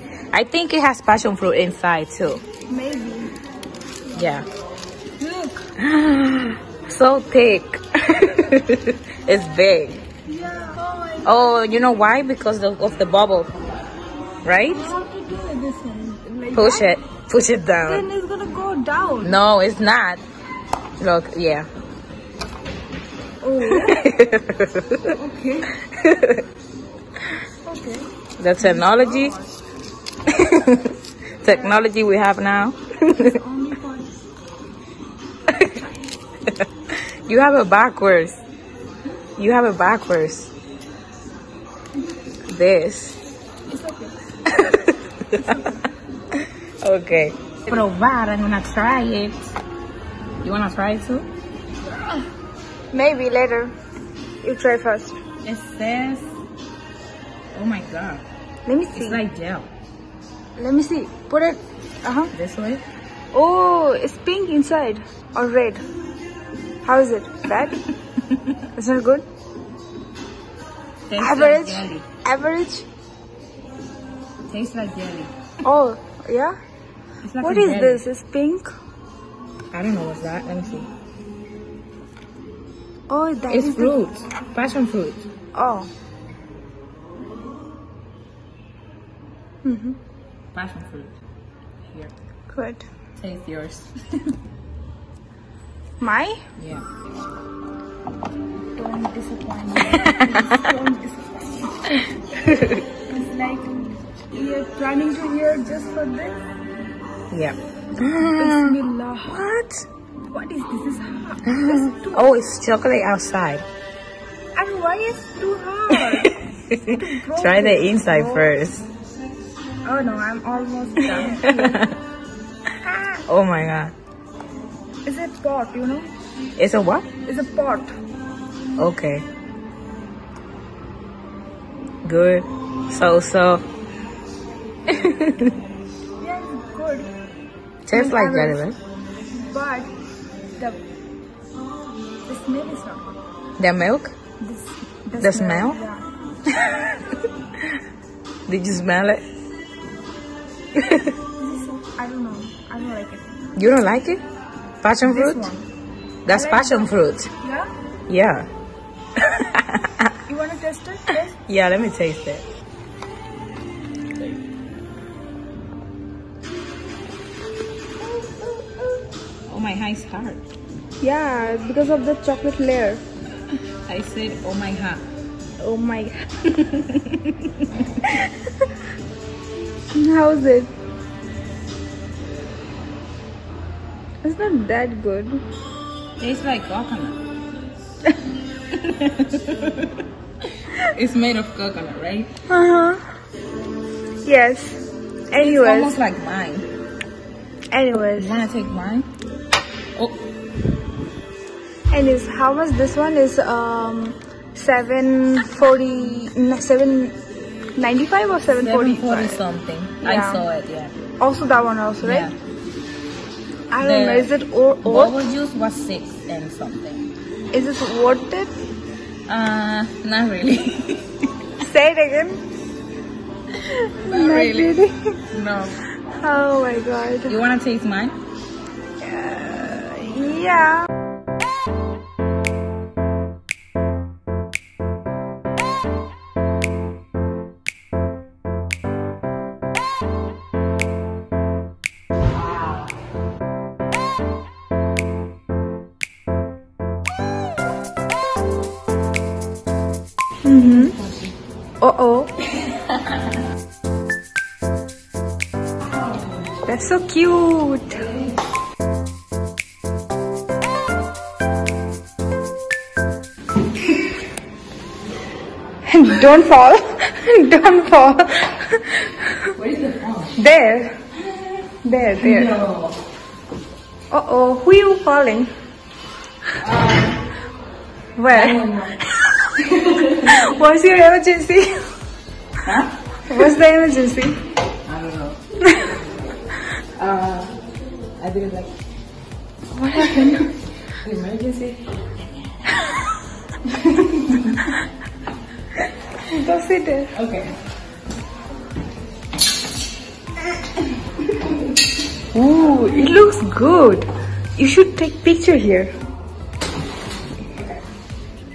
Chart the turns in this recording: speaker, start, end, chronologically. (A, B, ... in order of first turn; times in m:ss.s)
0:00.3-0:02.4 A
0:02.7-0:03.3 B
0:04.1-0:04.4 B
0:04.1-0:04.5 A
0:05.2-0:05.7 B
0:05.8-0:10.0 A
0:10.3-0:11.4 B
0:11.2-0:13.5 A
0:14.4-0:14.9 A
0:14.7-0:17.0 B
0:16.5-0:18.0 A
0:17.8-0:19.4 B
0:19.2-0:20.2 A
0:21.0-0:21.7 A
0:23.4-0:24.1 B
0:23.7-0:25.1 A
0:25.0-0:25.8 B
0:25.9-0:26.4 A
0:27.6-0:28.1 B
0:28.4-0:29.4 A
0:28.6-0:29.6 B
0:30.3-0:33.4 A
0:31.4-0:31.8 B
0:33.1-0:34.1 B
0:35.5-0:35.8 A
0:37.3-0:38.4 A
0:39.4-0:40.5 A
0:42.5-0:43.2 A
0:43.7-0:44.1 B
0:44.5-0:45.7 A
0:46.8-0:49.5 A
0:50.4-0:51.2 A
0:51.8-0:52.3 B
0:52.9-0:53.7 B
0:54.4-0:55.2 B
0:55.4-0:56.3 A
0:57.5-0:58.2 A
0:58.6-0:59.2 B
0:58.9-0:59.7 A
1:00.6-1:02.3 B
1:02.3-1:02.8 A
1:03.3-1:05.8 B
1:06.8-1:07.8 B
1:08.7-1:09.2 B
1:11.1-1:12.0 A
1:11.2-1:12.9 B
1:14.5-1:15.3 A
1:15.6-1:16.6 B
1:17.2-1:18.0 A
1:17.4-1:18.7 B
1:19.7-1:20.9 A
1:23.1-1:24.0 B
1:23.5-1:25.3 A
1:25.5-1:25.9 B
1:29.6-1:30.0 B
1:30.5-1:31.1 A
1:31.9-1:32.1 A
1:32.5-1:32.8 B
1:33.2-1:34.3 A
1:36.0-1:36.4 B
1:36.6-1:36.8 A
1:38.7-1:42.1 B
1:42.4-1:42.8 A
1:43.0-1:46.4 B
1:47.3-1:49.9 A
1:48.0-1:49.4 B
1:50.3-1:52.4 B
1:51.5-1:53.6 A
1:54.5-1:58.5 B
1:56.0-1:58.9 A
1:59.8-2:01.8 B
2:01.0-2:02.0 A
2:02.8-2:03.2 B
2:03.3-2:03.9 A
2:05.0-2:06.1 B
2:06.6-2:07.1 A
2:07.2-2:07.9 B
2:08.8-2:09.2 A
2:12.0-2:13.6 A
2:14.9-2:15.5 A
2:16.2-2:17.1 B
2:17.9-2:18.8 A
2:17.9-2:18.6 B
2:19.3-2:19.9 B
2:22.2-2:23.2 B
2:23.6-2:24.1 A
2:24.4-2:26.1 B
2:25.2-2:25.8 A
2:26.6-2:26.9 A
2:28.5-2:29.2 A
2:30.7-2:31.1 A
2:31.4-2:33.4 B
2:33.6-2:34.2 A
2:34.8-2:35.5 A
2:35.0-2:35.6 B
2:36.2-2:37.3 A
2:36.3-2:37.7 B
2:38.1-2:38.5 A
2:39.2-2:40.1 A
2:40.2-2:41.4 B
2:41.3-2:42.4 A
2:48.0-2:48.9 B
2:49.5-2:50.4 A
2:51.0-2:53.0 B
2:53.8-2:55.0 A
2:55.6-2:56.3 B
2:56.6-2:57.5 A
2:58.0-2:58.5 B
2:59.9-3:00.7 B
3:04.2-3:05.4 B
3:06.2-3:07.2 A
3:08.7-3:10.0 A
3:10.7-3:12.3 A
3:12.5-3:13.0 B
3:14.2-3:16.0 B
3:15.4-3:16.7 A
3:17.7-3:18.4 B
3:18.0-3:19.1 A
3:20.0-3:20.2 A
3:21.9-3:27.2 B
3:27.8-3:29.4 B
3:28.5-3:31.0 A
3:30.0-3:30.4 B
3:31.2-3:32.3 B
3:32.0-3:32.3 A
3:33.7-3:35.2 B
3:33.8-3:34.3 A
3:34.8-3:37.1 A
3:37.5-3:38.5 B
3:39.3-3:41.2 A
3:41.6-3:42.4 B
3:43.8-3:45.2 B
3:44.0-3:44.8 A
3:45.3-3:45.8 A
3:46.0-3:47.4 B
3:47.3-3:48.2 A
3:49.0-3:50.9 B
4:10.4-4:11.0 B
4:10.8-4:11.3 A
4:11.8-4:12.3 B
4:16.6-4:18.1 B
4:25.9-4:29.4 B
4:29.5-4:30.4 A
4:30.3-4:31.0 B
4:31.8-4:32.5 B
4:32.2-4:33.0 A
4:34.1-4:35.5 B
4:36.6-4:37.1 A
4:38.2-4:39.3 B
4:38.3-4:39.0 A
4:39.7-4:40.5 A
4:40.2-4:41.8 B
4:42.6-4:43.4 A
4:43.3-4:44.4 B
4:44.8-4:45.4 A
4:47.0-4:47.6 A
4:48.2-4:48.7 A
4:49.7-4:50.5 B
4:50.0-4:51.8 A
4:53.7-4:54.6 A
4:56.2-4:57.1 B
4:57.1-4:57.6 A
5:02.3-5:05.9 B